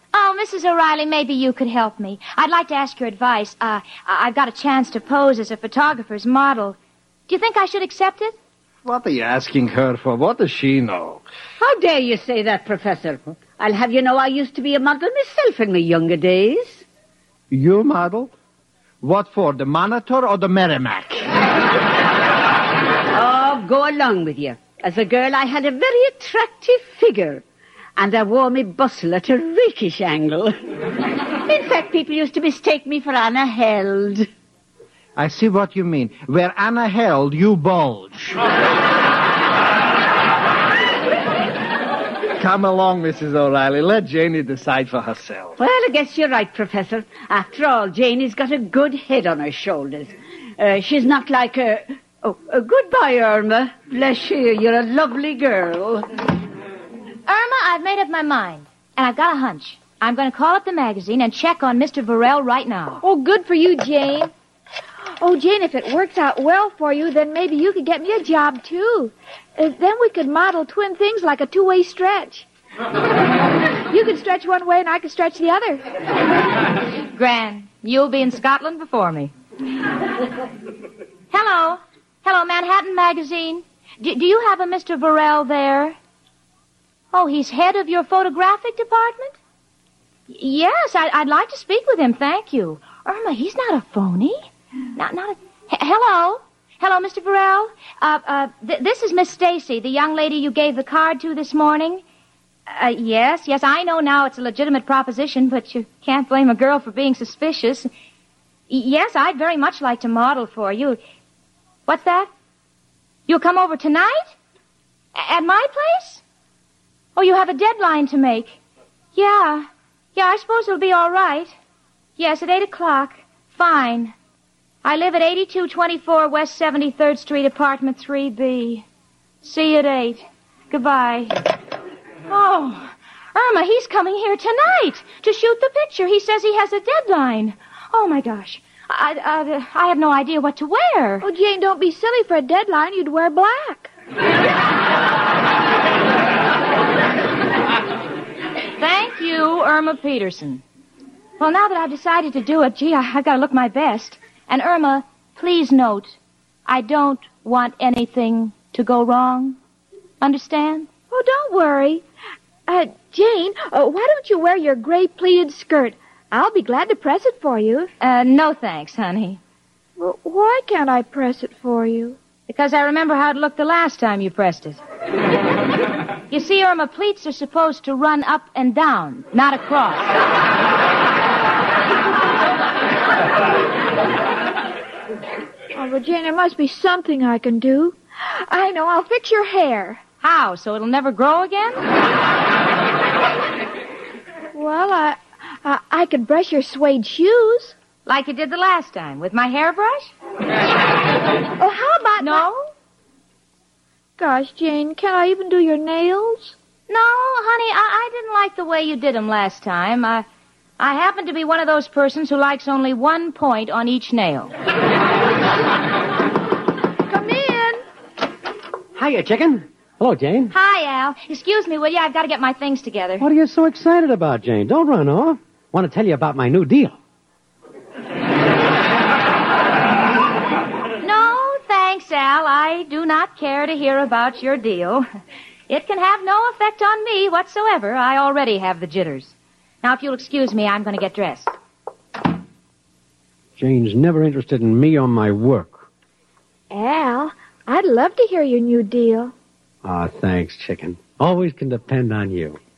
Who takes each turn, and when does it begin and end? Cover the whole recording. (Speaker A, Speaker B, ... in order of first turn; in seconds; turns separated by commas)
Speaker A: 0.1-6.8, Speaker A: 7.3-8.3, Speaker B: 8.8-11.2, Speaker C: 11.6-16.8, Speaker B: 17.5-18.3, Speaker B: 19.0-21.3, Speaker C: 23.1-27.4, Speaker C: 28.0-30.6, Speaker C: 31.4-34.3, Speaker B: 35.2-38.4, Speaker B: 42.4-45.5, Speaker C: 45.6-56.1, Speaker A: 57.3-63.0, Speaker D: 63.0-64.3, Speaker D: 65.2-72.5, Speaker D: 73.9-75.8, Speaker A: 77.1-79.3, Speaker A: 81.3-86.0, Speaker A: 87.1-89.3, Speaker A: 90.3-102.0, Speaker A: 102.7-107.9, Speaker A: 108.7-111.0, Speaker A: 111.9-112.3, Speaker A: 113.3-114.3, Speaker A: 115.2-116.2, Speaker A: 117.2-118.6, Speaker A: 119.2-121.5, Speaker A: 122.2-124.1, Speaker A: 124.8-128.8, Speaker A: 129.4-131.5, Speaker A: 132.3-141.2, Speaker D: 141.2-143.9, Speaker A: 148.8-150.6, Speaker A: 151.4-159.6, Speaker A: 160.2-160.9, Speaker D: 161.1-162.0, Speaker D: 162.7-167.9, Speaker A: 168.0-169.4, Speaker D: 170.0-172.2, Speaker A: 172.5-174.8, Speaker A: 176.3-180.2, Speaker D: 185.8-190.0, Speaker A: 190.2-191.8, Speaker D: 194.5-197.8, Speaker A: 198.1-200.1, Speaker D: 201.6-202.5, Speaker A: 202.2-202.6, Speaker D: 204.2-206.6, Speaker A: 206.9-210.2, Speaker A: 210.8-214.5, Speaker D: 217.1-217.8, Speaker E: 218.9-220.5, Speaker A: 220.5-223.2, Speaker E: 223.2-227.0, Speaker A: 231.0-235.1, Speaker A: 235.7-241.5, Speaker E: 243.6-245.8, Speaker D: 246.7-249.3, Speaker E: 249.8-252.6